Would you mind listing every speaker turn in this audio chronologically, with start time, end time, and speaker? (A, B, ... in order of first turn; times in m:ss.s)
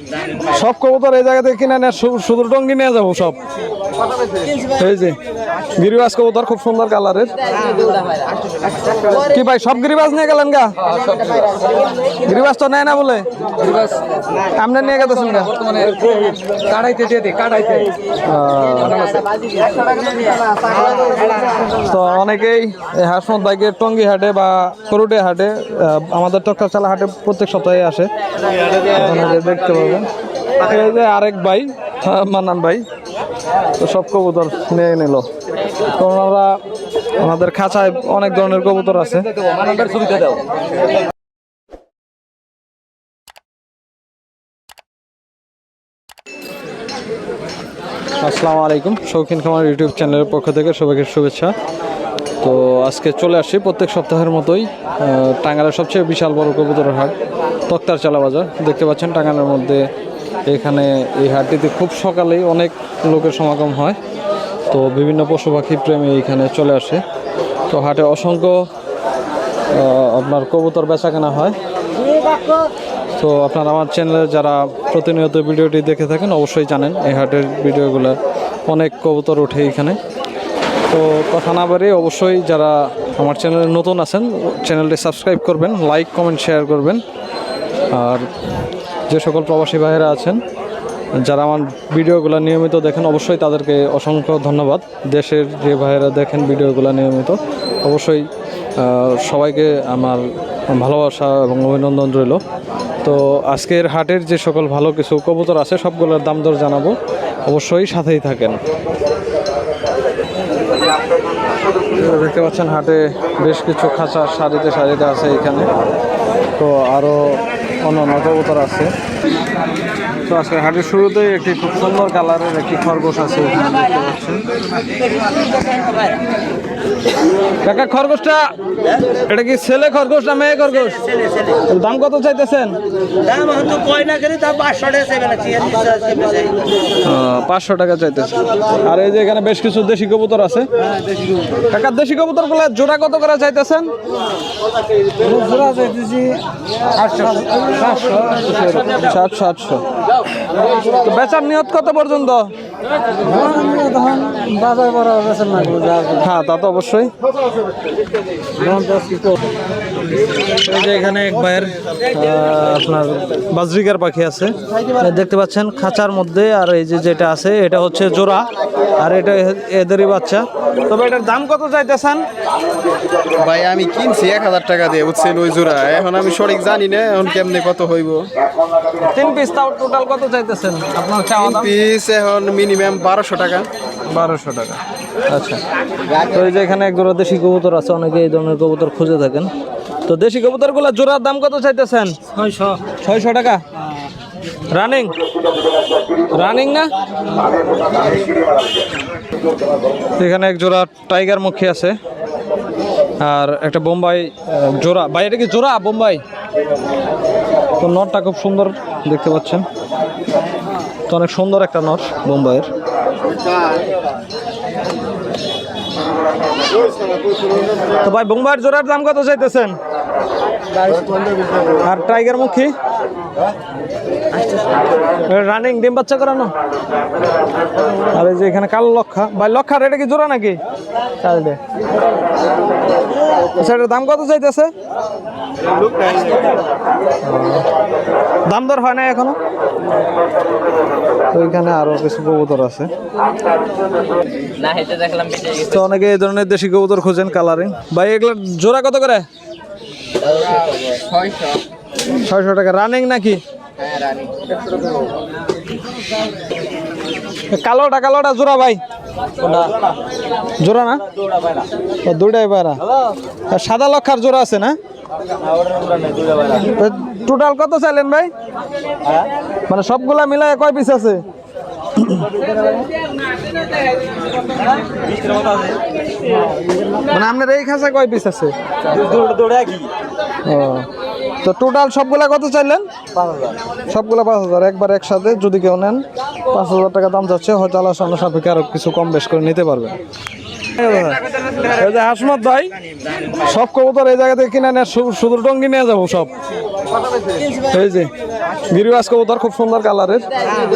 0:00.5-0:03.4 A
0:04.7-0:05.2 A
0:05.8-0:07.3 A
0:09.3-0:10.8 A
0:12.2-0:13.2 A
0:14.6-0:15.9 A
0:18.3-0:19.1 A
0:21.8-0:28.1 A
0:29.0-0:30.1 A
0:30.6-0:32.8 A
0:33.8-0:35.2 A
0:35.9-0:36.5 A
0:37.2-0:39.3 A
0:48.2-0:51.5 A
0:52.4-0:57.1 A
0:57.7-0:59.8 A
1:00.4-1:04.0 A
1:04.7-1:07.0 A
1:07.7-1:08.7 A
1:09.7-1:11.6 A
1:13.2-1:18.2 A
1:18.7-1:20.0 A
1:20.9-1:27.0 A
1:27.9-1:28.3 A
1:29.1-1:30.4 A
1:31.2-1:38.2 A
1:38.8-1:42.4 A
1:43.0-1:47.0 A
1:47.4-1:48.6 A
1:51.9-1:55.7 A
1:56.6-1:58.9 A
2:00.3-2:04.4 A
2:07.6-2:08.4 A
2:09.3-2:11.1 A
2:11.7-2:12.8 A
2:13.7-2:16.2 B
2:17.0-2:20.7 A
2:21.7-2:23.9 A
2:25.2-2:26.4 A
2:27.6-2:29.8 A
2:30.9-2:32.5 A
2:33.3-2:35.9 B
2:36.1-2:37.1 A
2:38.8-2:39.2 B
2:40.6-2:48.5 A
2:49.0-2:52.2 A
2:53.4-2:58.2 C
2:59.0-3:01.7 A
3:01.4-3:03.7 C
3:04.1-3:05.6 A
3:06.2-3:09.5 A
3:10.1-3:12.2 A
3:12.8-3:13.6 A
3:14.7-3:15.1 A
3:16.3-3:16.9 A
3:20.2-3:21.9 A
3:23.2-3:26.2 A
3:27.8-3:29.7 A
3:31.1-3:32.7 A
3:38.0-3:39.8 A
3:41.8-3:42.7 A
3:45.2-3:46.5 A
3:48.1-3:50.6 A
3:51.2-3:51.6 A
3:53.6-3:54.7 A
3:57.2-3:57.7 A
3:58.5-3:59.4 A
4:01.3-4:02.9 A
4:05.4-4:09.2 A
4:12.2-4:13.4 A
4:17.5-4:18.8 A
4:20.6-4:21.0 A
4:22.0-4:22.8 A
4:23.5-4:24.8 A
4:26.6-4:28.3 A
4:29.7-4:31.2 A
4:37.1-4:38.5 A
4:39.4-4:39.6 B
4:40.4-4:40.9 A
4:41.4-4:42.9 A
4:43.9-4:49.9 A
4:50.8-4:52.7 A
4:53.4-4:56.3 A
4:57.7-4:58.1 A
4:58.7-5:00.3 A